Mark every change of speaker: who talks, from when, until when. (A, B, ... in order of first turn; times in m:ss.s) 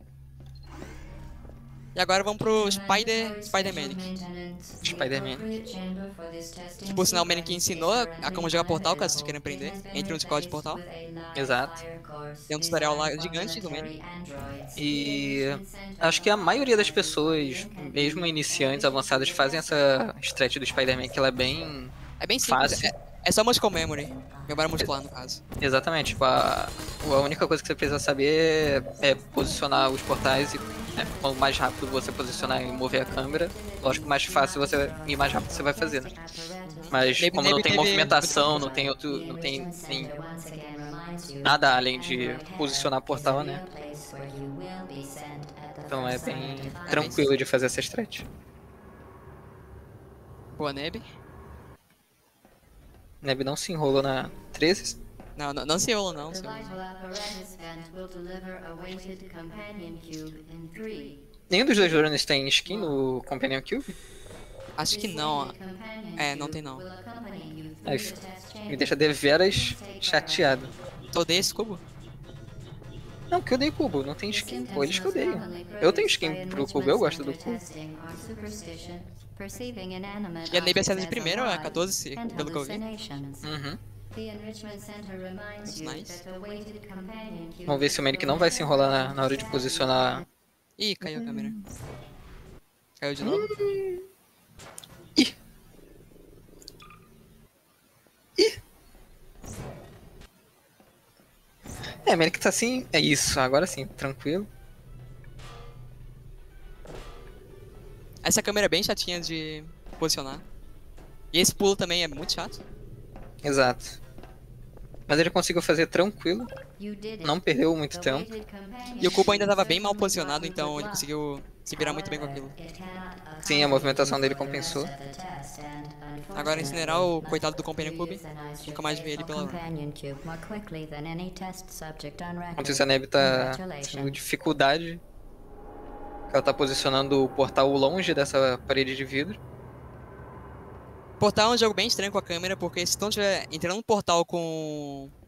0:02.0-0:04.1 A
0:02.5-0:19.8 B
0:04.8-0:05.4 C
0:06.8-0:10.8 A
0:11.4-0:11.8 C
0:12.5-0:13.9 A
0:14.8-0:22.9 C
0:22.2-0:25.4 A
0:25.6-0:36.1 C
0:30.2-0:47.4 B
0:36.7-0:38.6 A
0:36.9-0:40.1 C
0:41.4-0:43.6 C
0:45.9-0:48.3 C
0:46.9-0:47.2 A
0:50.5-0:51.1 A
0:53.2-0:55.0 C
0:55.4-0:56.8 A
0:56.3-1:01.2 B
1:01.5-1:03.9 C
1:04.8-1:05.5 A
1:04.9-1:10.7 B
1:06.2-1:06.8 A
1:07.9-1:08.2 C
1:08.7-1:10.7 C
1:11.1-1:11.8 A
1:13.3-1:17.6 C
1:14.3-1:23.5 B
1:20.5-1:22.8 A
1:23.4-1:23.8 C
1:24.1-1:30.2 B
1:25.7-1:26.2 A
1:27.7-1:30.2 C
1:30.8-1:31.6 A
1:31.0-1:31.7 C
1:33.0-1:33.7 A
1:33.2-1:34.0 C
1:42.0-1:44.5 C
1:48.2-1:50.4 A
1:51.3-1:52.6 A
1:53.4-1:54.0 C
1:55.1-1:56.5 C
1:56.8-2:01.1 B
1:57.2-1:58.3 C
1:59.0-2:02.5 A
2:01.8-2:14.2 B
2:03.4-2:04.9 C
2:06.3-2:09.6 A
2:12.6-2:15.0 C
2:16.3-2:19.4 C
2:21.2-2:25.1 A